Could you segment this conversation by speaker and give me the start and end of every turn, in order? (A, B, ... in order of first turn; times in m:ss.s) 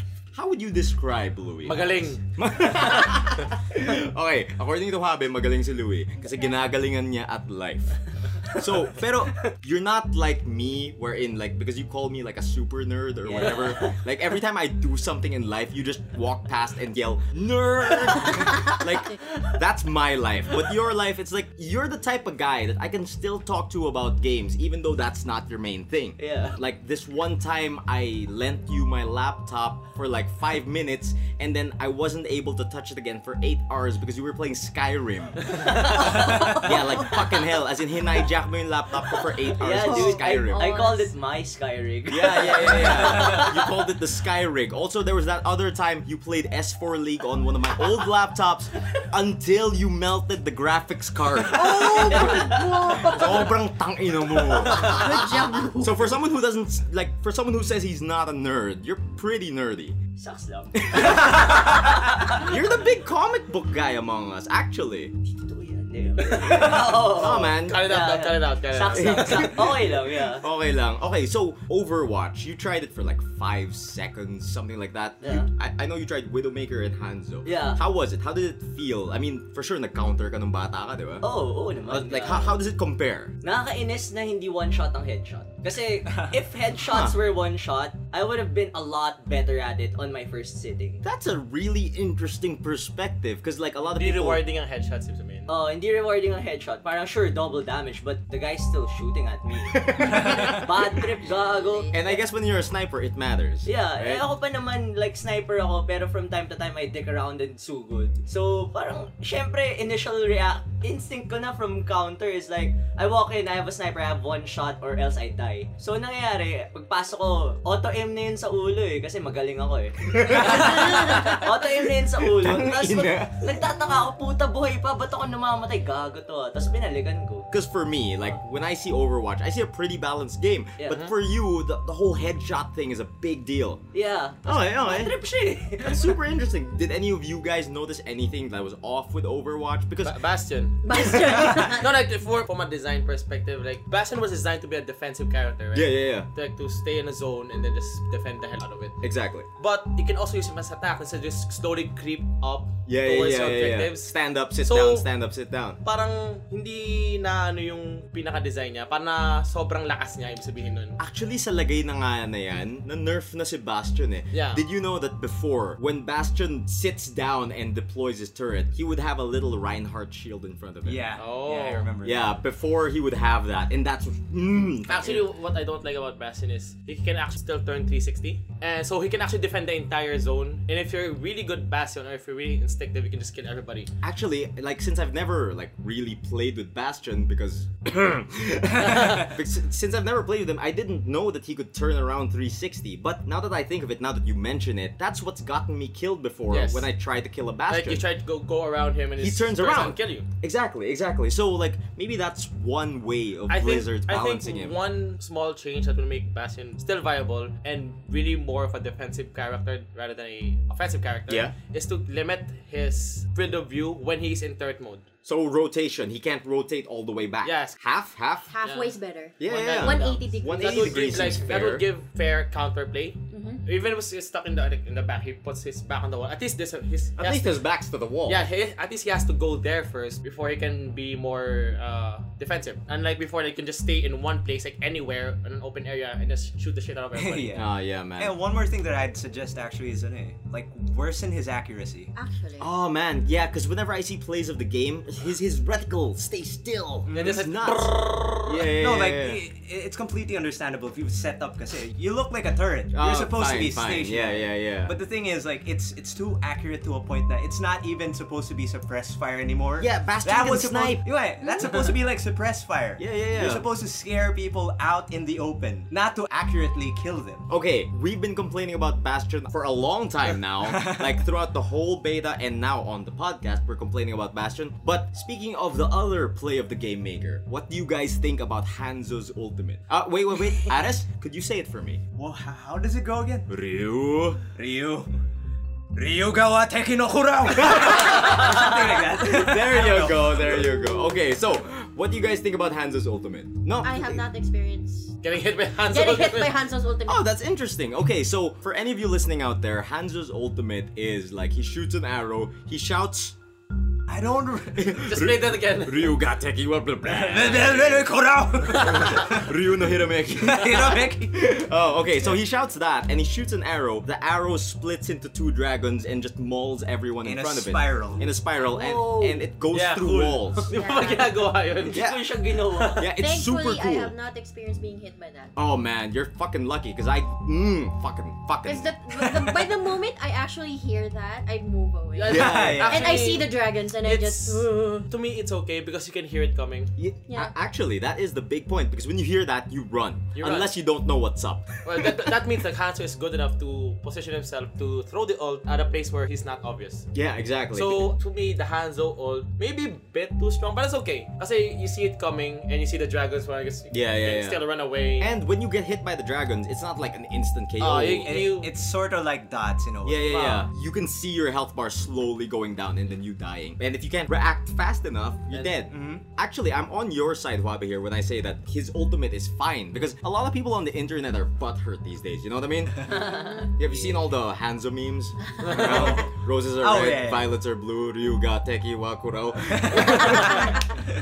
0:00.3-0:35.5 A
0:01.6-0:03.4 B
0:13.2-0:14.0 C
0:26.2-0:26.6 C
0:35.5-0:36.7 C
0:36.0-0:37.2 D
0:36.1-0:36.6 E
0:36.6-0:40.8 A
0:39.5-0:43.7 C
0:39.7-0:41.1 D
0:42.1-1:00.0 A
0:51.5-0:53.6 D
0:51.9-0:53.0 C
0:54.5-0:56.1 D
1:00.2-1:02.8 C
1:00.8-1:05.2 A
1:05.2-1:10.4 C
1:06.4-1:09.6 B
1:06.5-1:07.9 A
1:08.9-1:21.3 A
1:15.2-1:15.5 C
1:17.4-1:17.8 C
1:21.2-1:22.6 C
1:21.8-1:23.3 A
1:23.4-1:31.0 C
1:26.1-1:26.4 E
1:26.8-1:27.2 A
1:31.0-1:34.4 A
1:33.9-1:35.5 B
1:35.5-1:42.2 C
1:39.7-1:40.6 A
1:40.0-1:40.6 E
1:41.1-1:42.1 D
1:41.9-1:44.3 A
1:43.6-2:07.5 C
2:00.0-2:03.5 A
2:07.5-2:13.9 A
2:13.9-2:16.2 C
2:14.4-2:15.2 A
2:15.8-2:20.2 A
2:20.0-2:29.0 B
2:20.8-2:21.9 D
2:25.7-2:26.3 A
2:29.0-2:29.5 A
2:29.6-2:35.1 B
2:32.8-2:35.8 A
2:35.8-2:41.0 B
2:41.0-2:51.1 A
2:44.3-2:44.6 B
2:50.8-2:52.4 E
2:51.2-2:51.9 B
2:52.0-2:55.2 A
2:54.9-3:03.9 B
3:04.0-3:18.0 A
3:08.8-3:09.3 B
3:16.5-3:16.9 B
3:17.7-3:20.3 B
3:19.2-3:24.8 A
3:23.5-3:35.0 B
3:31.3-3:31.5 A
3:35.2-3:38.5 A
3:37.4-3:37.8 B
3:38.5-3:41.2 D
3:38.6-3:47.6 B
3:39.4-3:41.8 A
3:43.3-3:43.6 D
3:47.2-3:48.4 A
3:48.2-3:57.6 B
3:57.1-4:02.1 E
3:57.5-3:58.3 A
4:02.1-4:02.7 D
4:02.6-4:09.4 A
4:07.0-4:07.4 E
4:07.1-4:08.4 B
4:08.7-4:27.4 E
4:12.9-4:15.0 A
4:19.8-4:21.8 A
4:21.4-4:21.8 D
4:23.0-4:23.7 A
4:27.5-4:42.0 A
4:30.6-4:31.2 E
4:42.2-4:43.4 E
4:43.5-4:44.4 A
4:44.5-4:45.2 E
4:45.9-4:50.7 E
4:47.6-4:54.2 A
4:53.8-4:55.2 D
4:55.2-4:56.6 B
4:55.9-4:57.2 D
4:57.0-5:03.4 A
5:04.1-5:05.0 E
5:04.7-5:08.2 A
5:05.0-5:06.2 B
5:07.0-5:09.6 E
5:08.7-5:20.7 A
5:08.8-5:09.1 B
5:10.3-5:11.6 E
5:17.2-5:18.3 E
5:18.6-5:19.5 C
5:19.7-5:22.0 B
5:20.7-5:21.4 D
5:21.8-5:23.1 C
5:21.9-5:22.2 A
5:23.0-5:24.2 A
5:23.1-5:25.5 D
5:25.6-5:28.9 A
5:28.6-5:35.1 D
5:29.1-5:29.8 E
5:32.2-5:36.9 B
5:32.3-5:33.0 A
5:32.3-5:33.1 E
5:37.0-5:42.1 A
5:37.3-5:37.5 D
5:40.3-5:40.7 B
5:41.8-5:47.1 B
5:47.1-5:48.1 A
5:47.7-5:55.3 B
5:53.9-5:54.6 A
5:55.2-5:58.3 A
5:57.8-5:58.7 B
5:58.2-6:00.3 E
6:00.0-6:20.8 A
6:00.3-6:00.7 B
6:05.9-6:06.2 E
6:13.1-6:13.7 C
6:13.2-6:13.7 D
6:15.6-6:16.2 B
6:15.8-6:17.5 E
6:19.6-6:21.0 E